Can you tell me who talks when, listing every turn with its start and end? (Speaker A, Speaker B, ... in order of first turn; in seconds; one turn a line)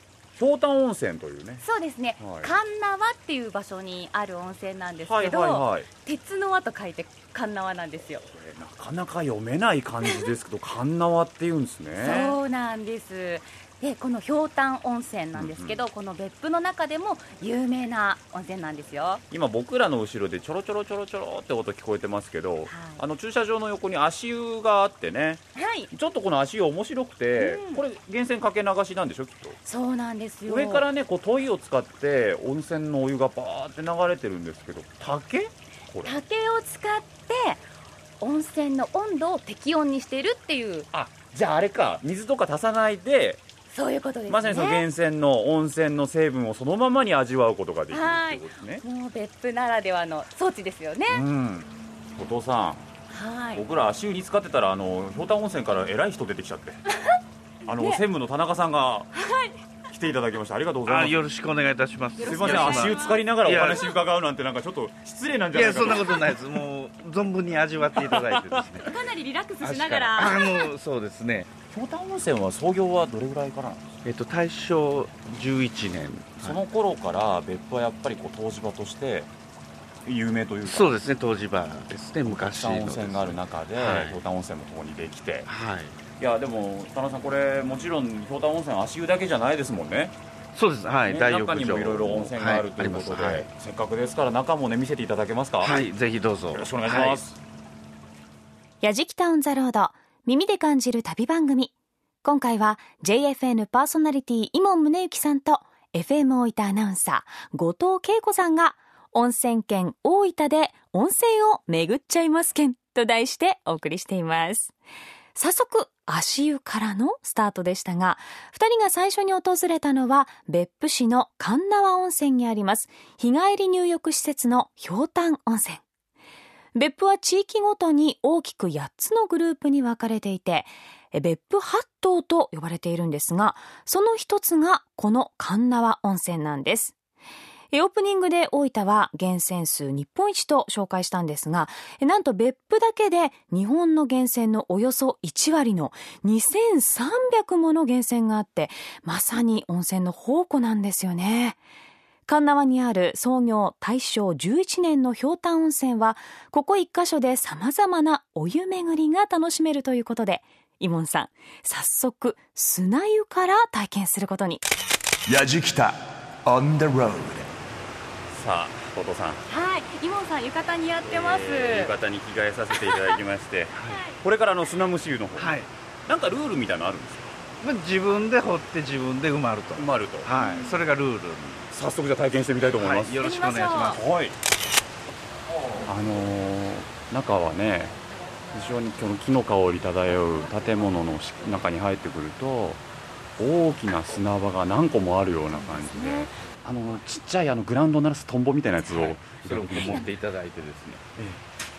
Speaker A: 0.3-1.6
Speaker B: 1.6-8.2
Speaker A: 2.2-2.5
Speaker A: 5.1-5.9
Speaker A: 8.2-12.4
Speaker B: 12.0-19.2
Speaker A: 15.3-15.8
Speaker A: 19.3-29.6
Speaker B: 22.7-23.0
Speaker B: 25.5-25.9
Speaker B: 27.4-27.8
Speaker B: 29.6-30.8
Speaker A: 30.5-36.1
Speaker B: 36.0-37.6
Speaker B: 38.2-40.9
Speaker A: 40.9-43.4
Speaker B: 43.7-44.9
Speaker A: 44.3-48.8
Speaker B: 47.9-51.2
Speaker A: 51.1-52.8
Speaker B: 53.1-53.6
Speaker A: 53.5-56.8
Speaker A: 57.6-59.1
Speaker B: 57.7-58.0
Speaker B: 59.1-59.5
Speaker A: 59.9-61.2
Speaker C: 60.9-63.9
Speaker B: 62.2-63.2
Speaker A: 62.2-66.4
Speaker C: 65.5-68.9
Speaker A: 68.0-68.6
Speaker B: 68.8-70.7
Speaker C: 69.6-71.5
Speaker A: 71.7-73.9
Speaker C: 74.0-76.6
Speaker A: 76.4-79.3
Speaker A: 80.0-81.0
Speaker C: 80.6-84.2
Speaker A: 82.3-85.5
Speaker C: 85.5-86.0
Speaker A: 86.2-90.1
Speaker C: 90.5-93.5
Speaker A: 91.1-95.9
Speaker C: 95.6-97.2
Speaker A: 96.5-97.4
Speaker D: 98.8-101.7
Speaker D: 102.2-114.7
Speaker D: 115.3-125.8
Speaker D: 126.7-136.9
Speaker D: 137.7-151.6
Speaker D: 152.3-164.7
Speaker E: 165.2-167.5
Speaker A: 168.3-169.4
Speaker B: 169.5-171.9
Speaker A: 171.0-177.3
Speaker B: 172.7-173.2
Speaker C: 173.7-174.0
Speaker B: 173.9-174.1
Speaker C: 175.3-175.7
Speaker C: 177.6-181.6
Speaker A: 179.8-180.3
Speaker B: 180.4-180.7
Speaker A: 181.7-183.2
Speaker C: 182.7-184.0
Speaker B: 183.2-184.0
Speaker A: 183.9-184.4
Speaker A: 185.8-188.0
Speaker A: 188.5-192.8
Speaker A: 193.4-200.1
Speaker B: 195.5-196.3
Speaker C: 198.8-201.1